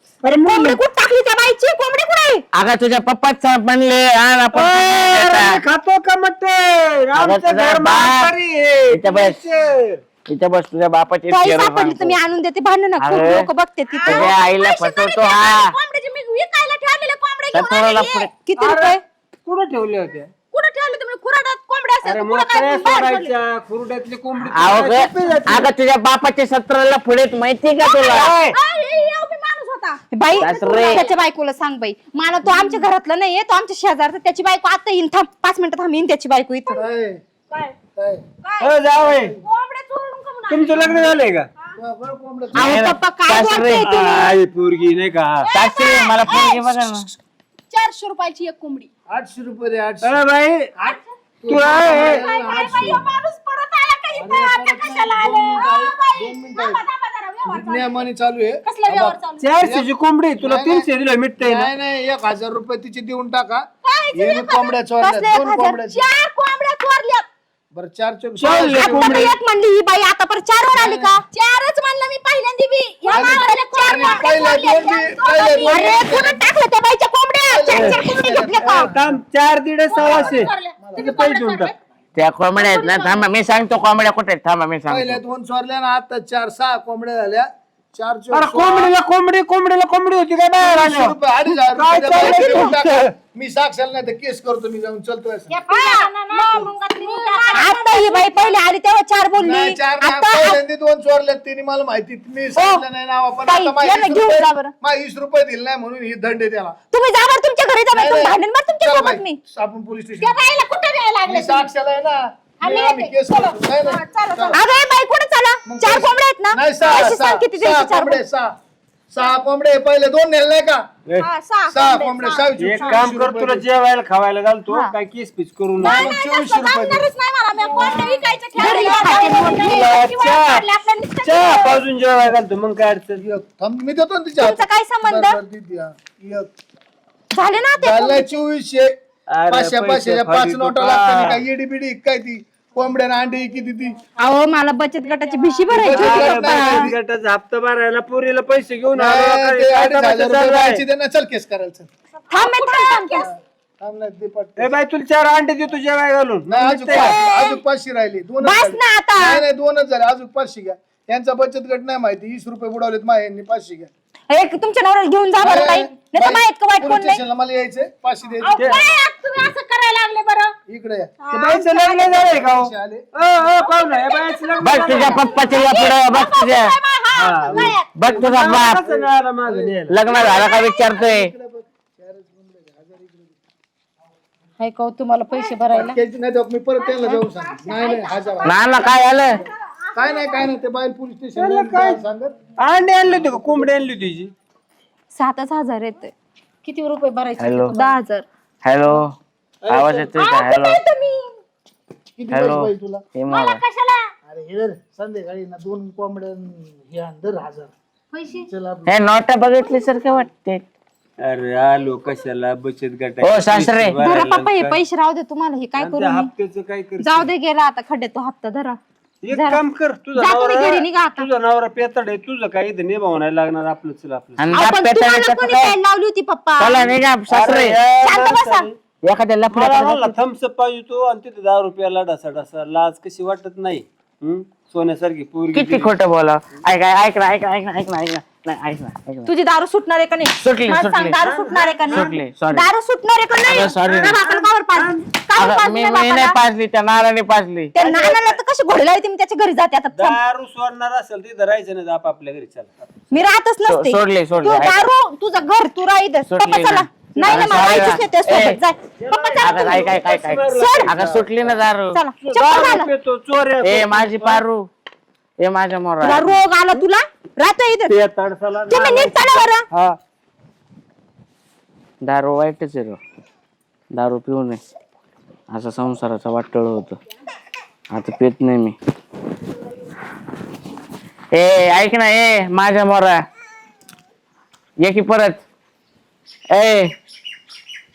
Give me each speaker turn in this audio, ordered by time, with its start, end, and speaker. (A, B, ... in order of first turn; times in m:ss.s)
0:00.2-0:00.8 A
0:00.4-0:02.4 B
0:02.5-0:05.6 C
0:04.5-0:10.0 A
0:07.1-0:08.3 C
0:08.9-0:09.4 C
0:10.3-0:12.2 C
0:11.3-0:14.3 B
0:13.0-0:13.5 C
0:13.9-0:18.3 D
0:14.0-0:15.8 C
0:17.5-0:18.3 C
0:18.3-0:19.0 B
0:18.6-0:20.3 A
0:20.5-0:23.3 D
0:22.0-0:25.7 A
0:24.4-0:28.3 C
0:27.8-0:31.2 D
0:28.1-0:28.6 A
0:30.1-0:36.8 B
0:30.4-0:31.0 C
0:32.4-0:32.8 E
0:36.7-0:37.2 E
0:37.5-0:37.8 D
0:38.0-0:38.2 E
0:38.4-0:41.2 D
0:38.6-0:39.4 A
0:39.0-0:39.3 E
0:40.5-0:41.5 A
0:41.8-0:42.8 E
0:42.5-0:43.9 C
0:42.5-0:44.4 B
0:43.8-0:45.5 A
0:45.4-0:46.6 D
0:45.5-0:47.1 C
0:46.3-0:46.9 B
0:47.7-0:48.9 D
0:49.1-0:50.2 E
0:50.0-0:50.8 A
0:50.8-0:53.2 E
0:50.9-0:58.1 D
0:51.5-0:52.3 A
0:54.1-0:56.8 E
0:57.4-1:06.1 E
0:58.6-0:59.6 D
0:59.4-1:01.7 A
1:03.8-1:04.8 D
1:05.0-1:05.8 B
1:05.7-1:07.2 D
1:07.7-1:09.3 E
1:08.4-1:09.3 A
1:08.7-1:11.2 B
1:10.7-1:11.2 E
1:11.2-1:16.0 D
1:13.1-1:14.5 B
1:13.1-1:16.5 E
1:15.6-1:18.9 B
1:17.4-1:19.2 E
1:17.7-1:18.4 D
1:17.7-1:21.7 A
1:19.9-1:21.8 D
1:20.0-1:21.2 E
1:22.2-1:25.2 C
1:22.6-1:23.2 D
1:24.9-1:28.9 E
1:28.3-1:33.1 A
1:30.6-1:35.5 E
1:32.1-1:32.8 B
1:35.5-1:38.6 D
1:35.7-1:40.6 B
1:39.4-1:46.8 E
1:42.6-1:42.8 B
1:43.4-1:44.7 B
1:46.9-1:49.4 B
1:47.9-1:50.4 E
1:50.2-1:51.7 D
1:51.2-1:54.6 E
1:52.6-1:54.6 D
1:54.5-1:58.2 B
1:55.6-1:58.5 E
1:59.1-2:00.8 E
2:01.2-2:02.4 D
2:01.7-2:03.6 E
2:01.9-2:03.0 B
2:02.6-2:06.0 A
2:05.8-2:07.1 E
2:05.8-2:09.8 B
2:06.0-2:06.8 D
2:07.5-2:11.8 D
2:09.6-2:10.7 A
2:11.2-2:13.2 A
2:13.2-2:16.5 E
2:14.4-2:15.4 B
2:17.3-2:18.3 B
2:17.8-2:18.9 E
2:19.3-2:21.5 A
2:19.5-2:24.0 E
2:24.2-2:26.8 B
2:25.7-2:30.8 A
2:25.7-2:27.0 E
2:28.9-2:31.9 E
2:32.3-2:33.3 D
2:32.3-2:33.2 B
2:33.2-2:34.7 E
2:34.6-2:37.2 A
2:36.5-2:43.9 E
2:36.9-2:37.6 B
2:38.4-2:39.4 B
2:44.3-2:47.2 B
2:45.4-2:48.8 E
2:48.4-2:50.5 D
2:48.5-2:48.8 A
2:50.7-2:51.4 E
2:51.2-2:52.1 D
2:51.3-2:55.6 A
2:52.0-2:53.5 E
2:53.6-2:58.0 D
2:54.6-2:56.8 C
2:57.1-3:00.0 A
2:57.4-3:03.4 E
2:57.9-2:58.8 C
2:59.9-3:01.3 C
3:00.1-3:00.8 D
3:04.6-3:05.7 B
3:05.2-3:05.9 D
3:05.7-3:12.3 E
3:06.8-3:08.5 D
3:08.4-3:09.4 C
3:10.0-3:10.4 D
3:11.4-3:12.0 A
3:12.6-3:14.3 A
3:15.1-3:16.1 B
3:16.6-3:18.0 D
3:17.4-3:17.8 C
3:17.7-3:18.2 B
3:18.6-3:19.1 C
3:19.6-3:20.1 E
3:19.7-3:20.8 C
3:20.2-3:21.2 D
3:22.2-3:23.0 E
3:22.3-3:23.6 C
3:23.3-3:24.0 D
3:24.3-3:27.7 E
3:28.1-3:28.4 D
3:28.4-3:28.9 E
3:28.9-3:30.6 C
3:31.2-3:34.8 A
3:33.2-3:34.0 C
3:34.0-3:36.3 B
3:35.8-3:37.3 A
3:37.0-3:38.8 B
3:39.2-3:44.6 A
3:39.3-3:39.6 B
3:40.1-3:41.3 B
3:44.4-3:45.8 C
3:44.5-3:46.9 B
3:46.6-3:47.8 C
3:46.9-3:48.8 A
3:48.0-3:48.7 B
3:49.0-3:50.2 C
3:49.5-3:55.9 A
3:55.5-3:59.3 C
3:59.2-4:06.4 B
4:00.4-4:01.2 C
4:01.2-4:02.2 A
4:01.9-4:02.7 C
4:03.4-4:04.2 C
4:03.7-4:05.1 A
4:05.4-4:07.7 C
4:07.7-4:10.2 B
4:07.8-4:08.4 A
4:09.9-4:12.9 A
4:13.1-4:19.6 B
4:13.6-4:14.9 C
4:16.3-4:18.6 C
4:17.1-4:17.7 A
4:19.0-4:21.6 A
4:19.4-4:22.0 C
4:20.5-4:20.9 B
4:21.9-4:22.9 B
4:22.2-4:24.4 A
4:23.6-4:24.7 C
4:25.4-4:26.4 C
4:26.0-4:27.9 B
4:27.9-4:30.0 A
4:28.7-4:29.6 B
4:32.0-4:33.0 C
4:33.9-4:34.6 C
4:35.5-4:37.0 C
4:37.9-4:38.8 C
4:41.3-4:43.2 C
4:44.8-4:45.4 C
4:46.5-4:46.9 C